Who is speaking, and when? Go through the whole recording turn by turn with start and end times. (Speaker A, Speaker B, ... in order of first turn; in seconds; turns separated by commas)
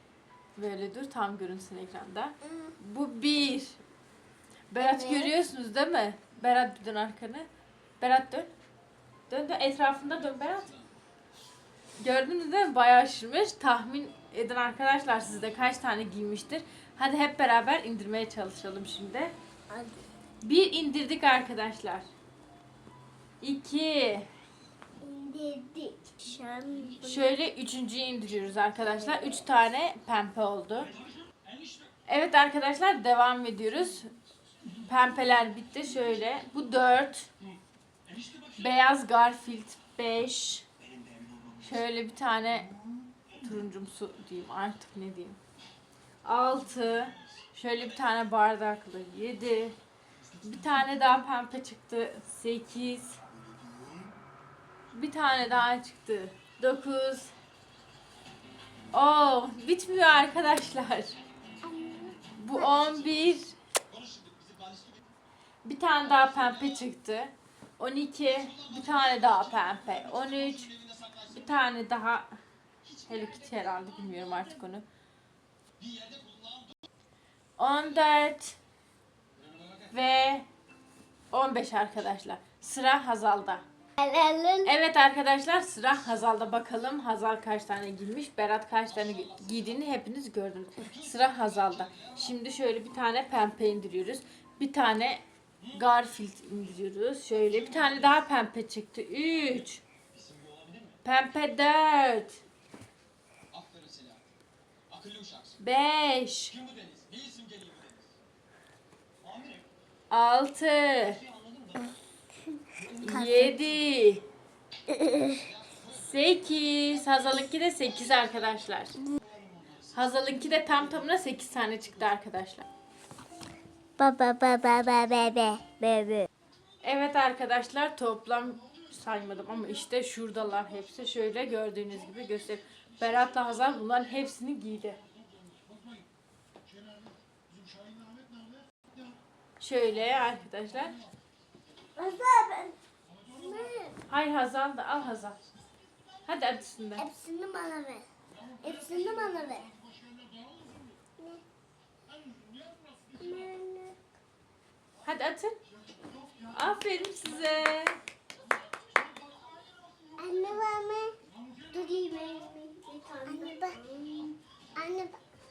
Speaker A: 0.6-3.8, Speaker A: 4.7-7.5, Speaker B: 4.8-5.3, Speaker A: 8.0-8.5, Speaker A: 9.3-10.8, Speaker A: 12.0-19.3, Speaker B: 19.7-20.0, Speaker A: 20.4-22.1, Speaker A: 23.4-24.3, Speaker B: 25.0-27.3, Speaker A: 27.0-30.9, Speaker B: 29.1-29.4, Speaker A: 32.1-34.1, Speaker A: 34.9-37.3, Speaker A: 38.5-40.6, Speaker A: 41.6-42.7, Speaker A: 43.4-45.4, Speaker A: 46.2-49.8, Speaker A: 50.4-53.2, Speaker A: 54.9-57.3, Speaker A: 58.9-61.2, Speaker B: 61.6-62.9, Speaker A: 62.4-63.6, Speaker C: 64.2-64.8, Speaker A: 65.7-72.3, Speaker A: 73.0-74.8, Speaker A: 77.6-78.6, Speaker A: 79.9-80.5, Speaker A: 81.3-83.6, Speaker B: 84.0-84.7, Speaker A: 84.7-99.8, Speaker A: 101.0-102.4, Speaker C: 103.6-104.2, Speaker C: 105.0-105.4, Speaker A: 105.6-106.6, Speaker C: 106.8-107.9, Speaker A: 110.1-111.2, Speaker B: 112.8-113.5, Speaker A: 113.0-114.2, Speaker B: 114.9-115.5, Speaker A: 115.9-119.0, Speaker A: 119.9-122.7, Speaker B: 124.0-126.3, Speaker A: 126.8-135.0, Speaker A: 139.6-141.0, Speaker B: 142.0-142.8, Speaker B: 143.3-144.0, Speaker A: 144.1-145.4, Speaker A: 146.3-147.1, Speaker B: 147.0-148.1, Speaker B: 148.6-149.7, Speaker B: 153.2-154.0, Speaker A: 155.1-155.6, Speaker A: 156.5-158.0, Speaker B: 160.2-161.2, Speaker B: 161.7-165.2